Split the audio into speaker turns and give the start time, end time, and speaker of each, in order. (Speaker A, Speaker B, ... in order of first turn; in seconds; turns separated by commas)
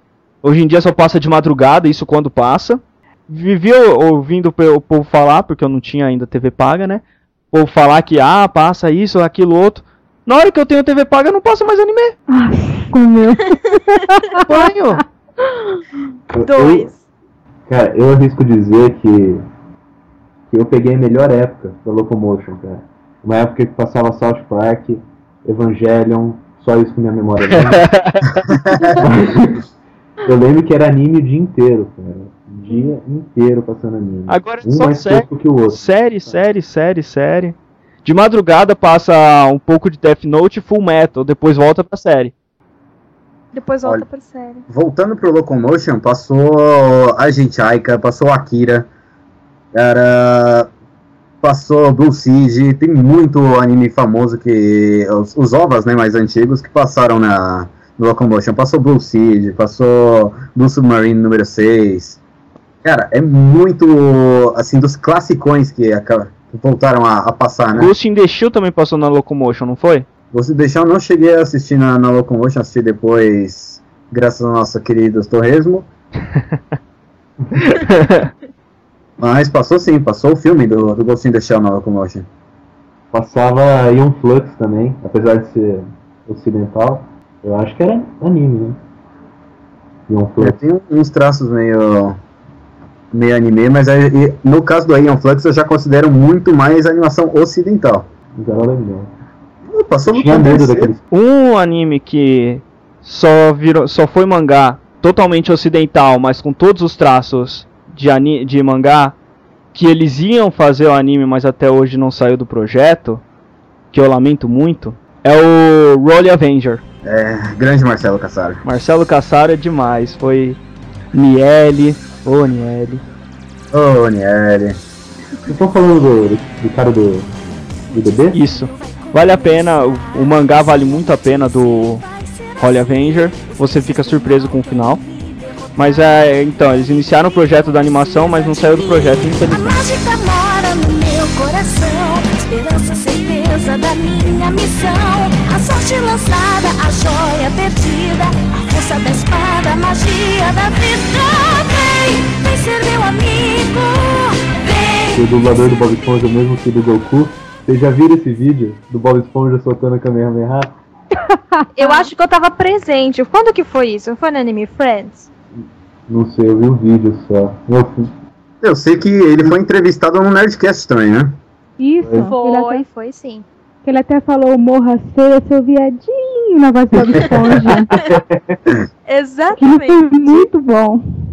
Speaker A: 0.4-12.2, Speaker B: 12.3-15.8, Speaker A: 14.4-15.0, Speaker C: 16.3-16.9, Speaker D: 16.4-17.0, Speaker C: 17.7-19.4, Speaker C: 20.5-28.0, Speaker A: 27.5-28.4, Speaker E: 28.5-29.0, Speaker C: 29.0-29.6, Speaker C: 30.2-35.8, Speaker A: 34.3-42.3, Speaker D: 43.5-44.6, Speaker E: 44.7-48.9, Speaker E: 49.7-50.7, Speaker E: 51.4-62.2, Speaker E: 62.8-67.9, Speaker A: 67.8-70.1, Speaker E: 70.3-75.9, Speaker A: 77.7-78.3, Speaker E: 79.2-82.3, Speaker C: 83.1-88.8, Speaker C: 90.1-90.6, Speaker E: 90.4-92.2, Speaker E: 93.1-98.1, Speaker C: 98.3-99.1, Speaker E: 99.7-100.9, Speaker C: 100.1-101.0, Speaker A: 101.1-109.2, Speaker A: 109.7-113.2, Speaker A: 113.9-116.8, Speaker E: 117.0-118.6, Speaker A: 118.7-120.6, Speaker A: 121.1-123.0, Speaker E: 123.7-124.8, Speaker C: 125.5-127.3, Speaker C: 127.9-128.4, Speaker A: 128.3-132.1, Speaker A: 132.6-135.0, Speaker A: 135.8-139.8, Speaker F: 139.0-155.2, Speaker C: 155.1-160.7, Speaker B: 161.3-162.1, Speaker D: 161.8-165.3, Speaker C: 166.1-168.1, Speaker E: 168.6-171.4, Speaker B: 171.8-172.8, Speaker C: 172.0-172.3, Speaker D: 172.2-173.5, Speaker B: 173.8-177.9, Speaker C: 177.9-178.7, Speaker D: 179.1-180.5, Speaker B: 179.6-181.0